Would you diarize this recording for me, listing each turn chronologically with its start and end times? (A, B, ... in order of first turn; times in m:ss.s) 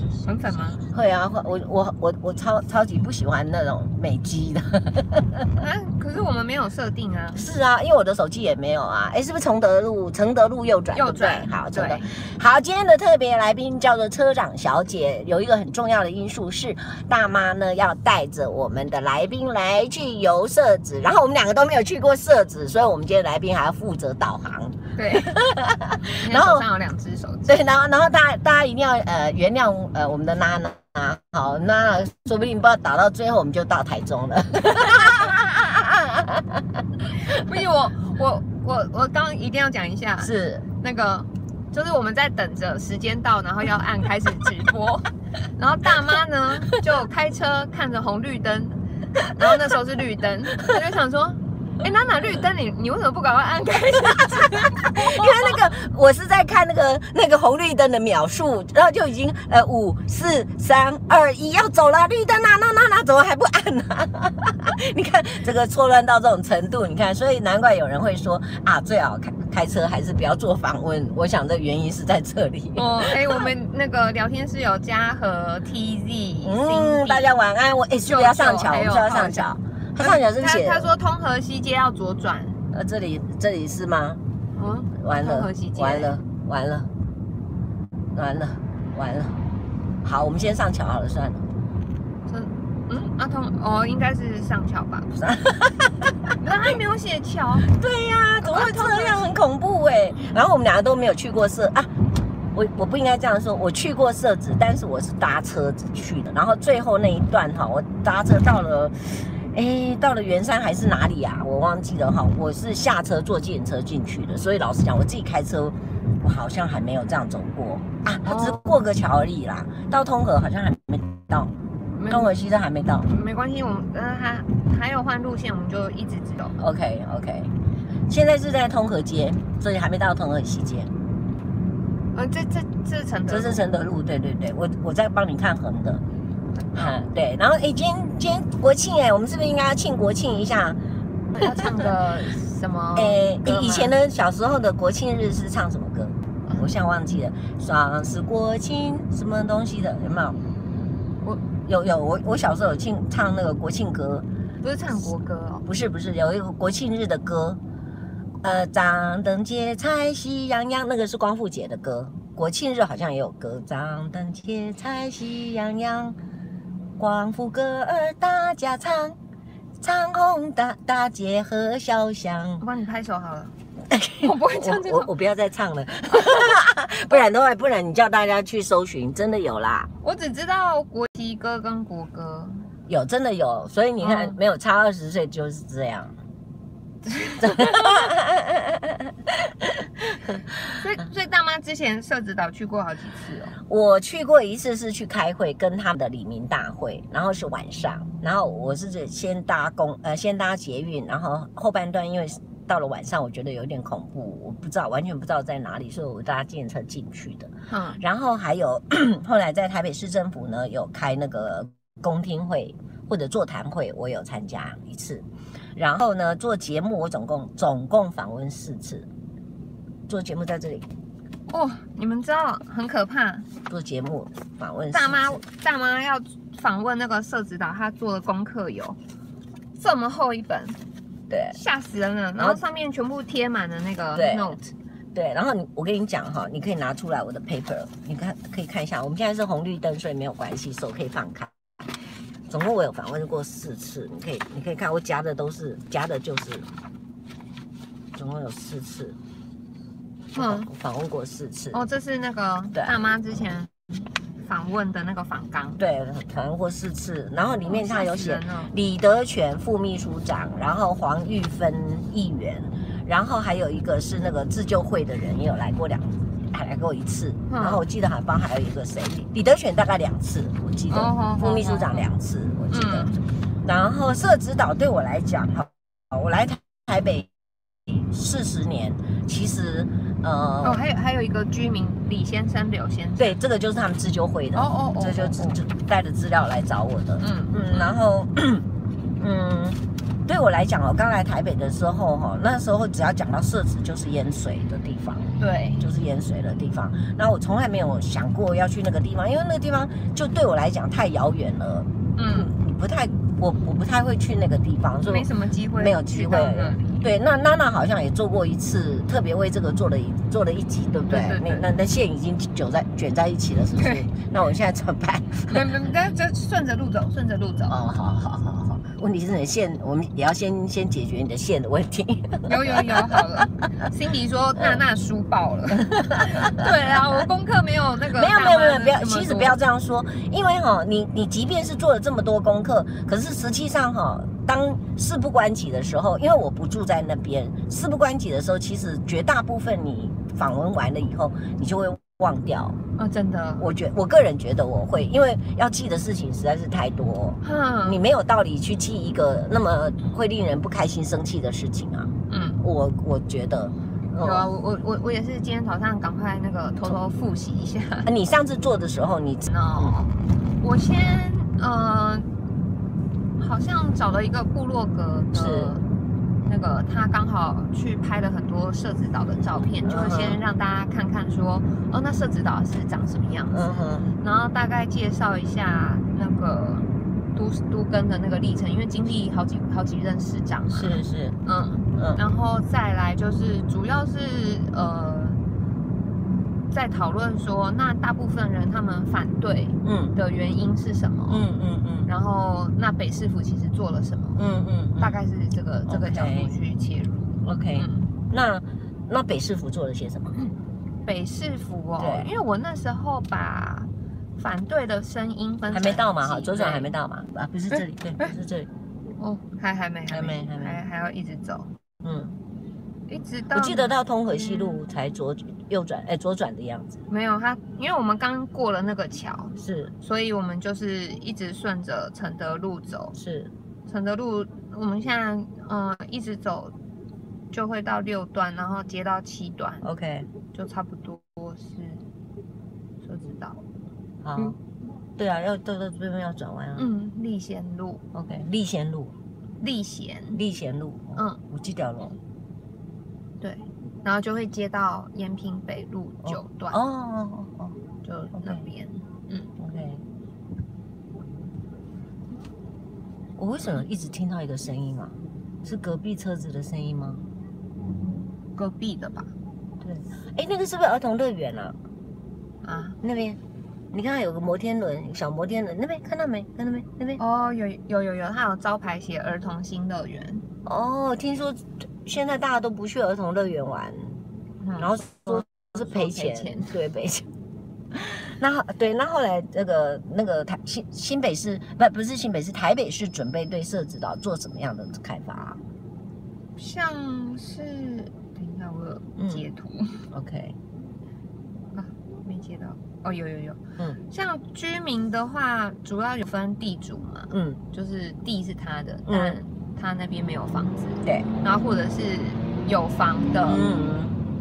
0:00.2-0:00.8 A
0:00.9-0:05.5 B
0:05.6-0:07.5 A
0:07.3-0:26.7 B
0:11.0-0:12.1 A
0:25.0-0:25.3 A
0:26.0-0:27.5 A
0:27.5-0:37.5 B
0:37.2-0:48.8 A
0:40.2-0:40.6 B
0:49.3-0:55.6 A
0:54.3-1:13.4 B
1:12.8-1:17.3 A
1:16.4-1:20.9 B
1:18.0-1:22.6 A
1:22.7-1:24.2 B
1:24.6-1:26.1 A
1:25.0-1:26.9 B
1:28.2-1:29.4 B
1:30.0-1:31.5 B
1:32.3-1:35.1 A
1:35.2-1:36.4 B
1:36.4-1:37.7 A
1:37.7-1:41.9 B
1:38.4-1:39.3 A
1:42.5-2:01.5 B
1:58.2-1:58.8 A
2:02.0-2:02.3 A
2:02.1-2:03.1 B
2:03.0-2:06.6 A
2:06.6-2:07.5 B
2:08.1-2:10.9 B
2:12.1-2:13.6 A
2:13.3-2:16.0 B
2:16.7-2:20.8 B
2:21.3-2:24.0 A
2:23.0-2:30.4 B
2:31.6-2:34.3 B
2:34.6-2:35.6 A
2:35.7-2:37.6 B
2:38.4-2:46.2 B
2:47.0-2:49.2 B
2:49.8-2:52.6 B
2:52.6-2:53.5 A
2:53.9-2:59.9 B
2:54.2-2:55.1 A
3:00.0-3:02.7 A
3:02.9-3:06.1 B
3:04.0-3:04.4 A
3:07.0-3:08.1 A
3:07.4-3:10.8 B
3:10.7-3:13.6 A
3:13.7-3:35.2 B
3:27.7-3:28.0 A
3:35.8-3:39.1 B
3:40.1-3:40.9 B
3:41.5-3:43.5 A
3:43.7-3:45.4 B
3:44.9-3:49.0 A
3:49.8-3:50.8 A
3:51.3-3:51.6 B
3:51.5-3:54.7 A
3:54.2-3:54.6 B
3:55.1-4:01.5 B
4:02.5-4:06.7 B
4:08.2-4:09.2 B
4:10.4-4:10.7 A
4:10.4-4:11.8 B
4:11.7-4:15.8 A
4:15.8-4:37.3 B
4:17.7-4:18.7 A
4:27.5-4:27.8 A
4:30.9-4:32.1 A
4:32.7-4:33.2 A
4:37.9-4:40.8 B
4:40.6-4:43.4 A
4:43.2-4:48.7 B
4:44.6-4:45.6 A
4:47.2-4:48.0 A
4:49.2-5:15.7 B
4:55.4-4:55.9 A
5:02.2-5:02.5 A
5:05.0-5:07.0 A
5:11.1-5:11.7 A
5:15.5-5:17.8 A
5:17.7-5:23.3 B
5:22.5-5:29.6 A
5:25.8-5:26.8 B
5:28.2-5:42.8 B
5:43.0-5:43.7 A
5:43.6-5:54.5 B
5:47.4-5:48.0 A
5:52.3-5:52.6 A
5:54.2-5:58.1 A
5:58.1-5:59.9 B
5:59.5-6:02.3 A
6:03.4-6:05.8 A
6:05.3-6:05.8 B
6:06.5-6:13.7 A
6:09.9-6:10.4 B
6:13.5-6:14.1 B
6:14.2-6:25.4 A
6:20.7-6:21.4 B
6:22.0-6:22.2 B
6:26.7-6:31.4 A
6:29.8-6:30.2 B
6:31.3-6:32.1 B
6:32.1-6:34.4 A
6:34.4-6:35.2 B
6:35.0-6:38.1 A
6:35.9-6:36.5 B
6:37.4-6:40.4 B
6:41.0-6:46.9 A
6:42.0-6:42.3 B
6:45.7-6:48.7 B
6:47.7-6:48.3 A
6:49.2-6:51.7 A
6:50.1-6:50.8 B
6:52.0-6:52.3 B
6:53.1-6:54.8 A
6:53.5-6:57.0 B
6:57.1-7:03.2 A
6:59.6-6:59.9 B
7:03.2-7:03.5 B
7:03.9-7:06.8 A
7:07.5-7:09.8 A
7:09.8-7:10.3 B
7:10.5-7:12.0 A
7:13.0-7:13.6 A
7:14.2-7:14.6 B
7:15.2-7:16.9 B
7:16.8-7:18.0 A
7:18.1-7:19.1 B
7:19.6-7:20.4 A
7:20.3-7:22.2 B
7:23.4-7:26.8 A
7:26.2-7:27.8 B
7:28.0-7:29.5 A
7:28.4-7:28.6 B
7:29.6-7:30.0 B
7:33.4-7:37.2 B
7:38.6-7:39.3 A
7:39.8-7:41.8 B
7:42.6-7:43.0 A
7:43.0-7:43.4 B
7:43.9-7:47.2 B
7:47.2-7:50.4 A
7:50.6-7:54.2 B
7:54.6-7:56.8 A
7:54.8-7:57.3 B
7:57.9-8:05.6 B
8:06.6-8:10.0 A
8:09.2-8:09.4 B
8:10.1-8:10.6 B
8:11.7-8:23.6 A
8:17.3-8:17.6 B
8:19.1-8:19.4 B
8:23.4-8:24.2 B